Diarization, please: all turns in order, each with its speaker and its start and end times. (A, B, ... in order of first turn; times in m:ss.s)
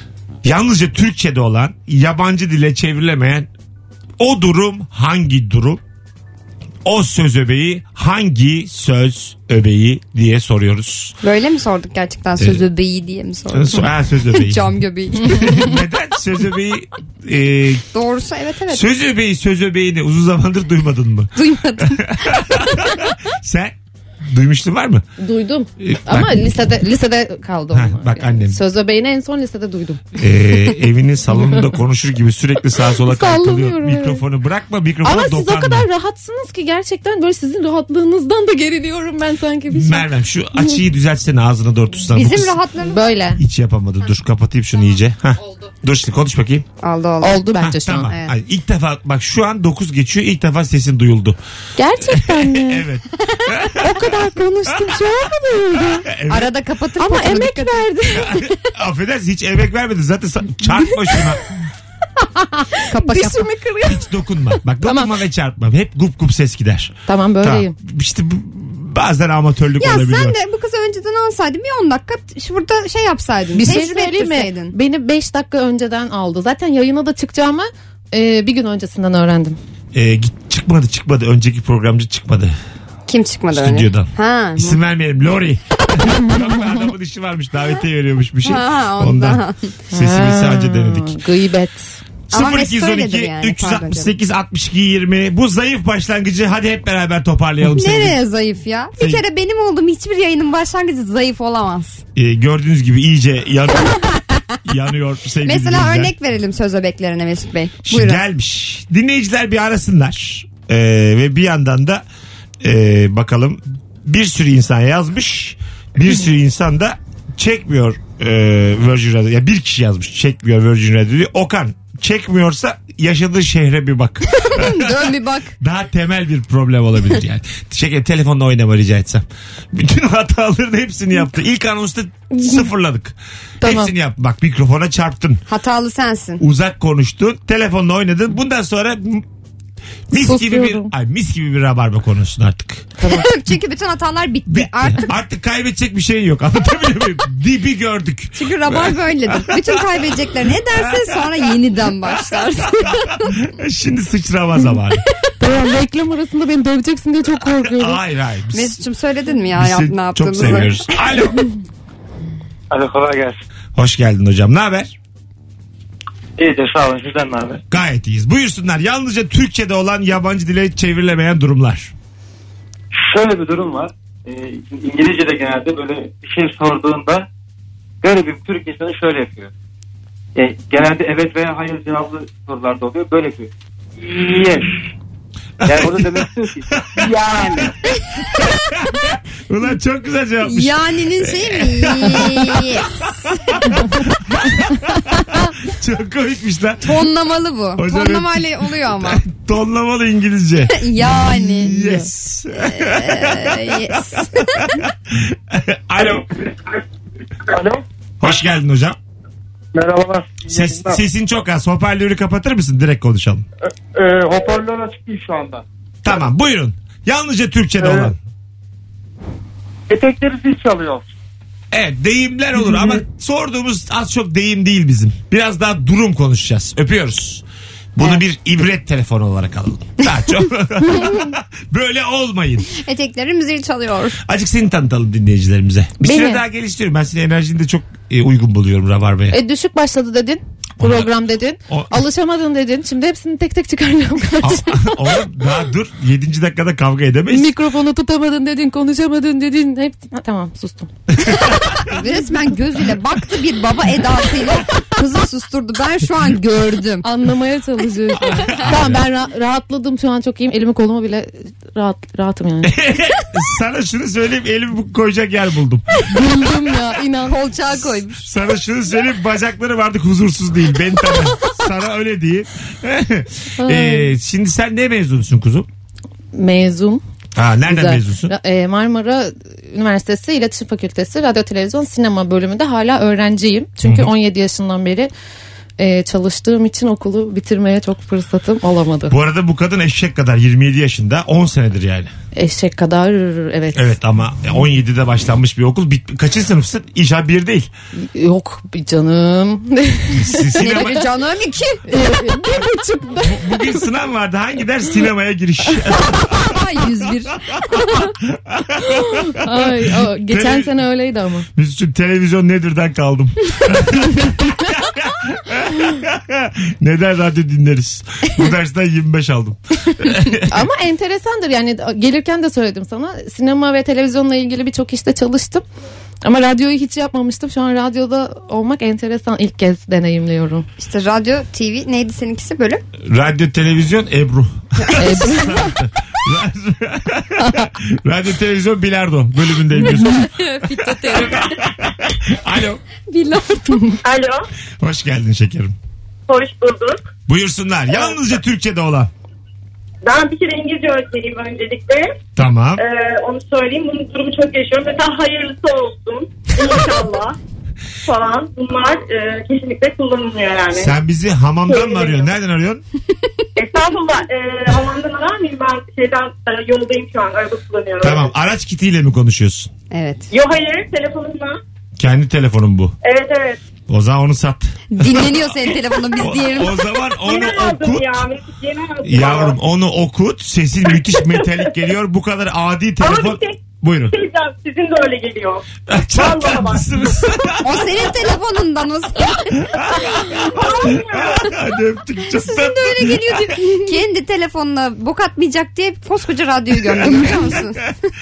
0:00.4-0:03.5 A
0:04.2-0:05.8 A
0:06.8-0:11.2 A
0:11.2-0:15.7 B
0:12.4-0:12.7 A
0:13.5-0:17.8 A
0:17.9-0:18.9 B
0:18.7-0:25.0 A
0:21.4-0:22.3 B
0:25.2-0:30.0 C
0:25.8-0:26.7 A
0:27.7-0:28.6 A
0:30.2-0:35.9 A
0:31.3-0:31.7 C
0:33.1-0:34.2 C
0:35.0-0:40.8 C
0:39.7-0:42.6 A
0:42.1-0:43.2 B
0:42.8-0:43.4 C
0:43.4-0:46.7 A
0:46.8-0:47.4 B
0:47.2-0:48.1 C
0:47.6-0:51.4 A
0:48.1-0:48.3 B
0:51.8-0:52.9 C
0:52.0-0:55.2 A
0:53.8-0:56.1 C
0:55.8-0:56.5 A
0:56.3-0:58.0 B
0:57.0-0:58.3 C
0:58.1-1:01.4 A
1:02.4-1:03.9 C
1:02.9-1:03.6 B
1:03.8-1:10.4 A
1:04.8-1:05.1 C
1:07.1-1:07.7 C
1:09.8-1:14.7 B
1:13.6-1:19.6 C
1:19.9-1:22.6 A
1:23.1-1:24.8 B
1:23.5-1:29.4 A
1:28.4-1:29.7 B
1:29.9-1:31.9 C
1:29.9-1:31.2 A
1:32.3-1:34.1 B
1:32.3-1:38.2 A
1:37.6-1:42.0 B
1:42.2-1:46.1 A
1:44.0-1:44.6 B
1:45.4-1:48.2 B
1:47.9-1:52.0 A
1:52.6-2:15.4 A
2:04.3-2:05.5 B
2:13.6-2:13.9 C
2:15.5-2:16.4 B
2:16.4-2:19.3 A
2:20.1-2:22.9 A
2:20.1-2:20.9 C
2:23.0-2:23.3 C
2:23.0-2:25.1 B
2:24.5-2:29.8 A
2:28.4-2:33.4 B
2:30.7-2:31.4 A
2:32.1-2:35.0 A
2:35.4-2:38.0 C
2:37.5-2:38.8 A
2:38.5-2:40.9 B
2:39.5-2:41.4 A
2:43.8-2:45.0 A
2:47.7-2:51.9 A
3:05.6-3:07.7 A
3:08.4-3:17.1 A
3:10.4-3:13.3 B
3:16.8-3:19.2 B
3:17.8-3:26.6 A
3:20.7-3:21.8 B
3:21.6-3:22.1 C
3:22.6-3:24.6 B
3:27.5-3:27.8 D
3:28.2-3:29.0 A
3:29.8-3:30.8 D
3:30.5-3:33.4 A
3:33.9-3:35.6 D
3:36.0-3:38.2 A
3:37.8-3:38.1 D
3:39.9-3:41.1 D
3:41.7-3:52.7 A
3:52.7-3:54.2 B
3:54.3-3:59.4 A
3:56.0-3:56.4 C
3:59.3-4:05.0 C
4:00.8-4:01.1 A
4:01.7-4:02.0 A
4:04.4-4:07.5 A
4:07.3-4:10.9 C
4:11.1-4:11.8 A
4:11.9-4:17.1 B
4:17.0-4:22.8 C
4:18.3-4:18.6 B
4:18.5-4:19.0 A
4:22.6-4:26.4 A
4:26.1-4:27.5 C
4:27.3-4:28.3 B
4:28.2-4:35.7 A
4:33.6-4:34.1 C
4:36.3-4:37.0 C
4:37.4-4:38.3 A
4:37.7-4:45.1 C
4:43.8-4:44.1 A
4:45.8-4:49.2 C
4:49.1-4:52.1 A
4:52.4-4:53.9 C
4:53.8-4:57.7 A
4:58.0-5:01.0 C
5:00.1-5:01.0 A
5:00.6-5:01.8 B
5:01.9-5:03.6 C
5:03.2-5:06.6 A
5:06.1-5:08.1 B
5:07.7-5:10.8 A
5:09.0-5:11.5 C
5:11.6-5:20.5 A
5:20.5-5:25.6 C
5:26.2-5:30.7 C
5:30.8-5:32.8 B
5:33.1-5:42.8 A
5:35.0-5:35.7 C
5:39.8-5:40.2 C
5:39.8-5:41.6 B
5:43.1-5:43.8 B
5:44.0-5:44.4 E
5:44.8-5:45.8 A
5:46.3-5:47.0 E
5:47.3-5:49.1 A
5:50.0-5:52.2 E
5:52.4-5:52.8 A
5:52.8-5:57.4 E
5:58.1-6:00.9 E
6:00.7-6:02.8 A
6:01.7-6:02.3 E
6:03.6-6:08.3 E
6:08.0-6:09.7 A
6:09.9-6:10.3 B
6:10.3-6:11.6 E
6:12.0-6:13.0 A
6:13.0-6:13.6 E
6:13.9-6:15.4 A
6:15.0-6:16.8 B
6:16.2-6:18.2 A
6:17.1-6:19.6 E
6:19.0-6:24.1 A
6:20.9-6:21.7 E
6:23.0-6:23.6 E
6:24.1-6:27.5 E
6:25.9-6:28.0 A
6:27.6-6:29.7 B
6:29.6-6:33.6 A
6:30.3-6:31.6 E
6:32.3-6:37.9 B
6:36.8-6:37.7 A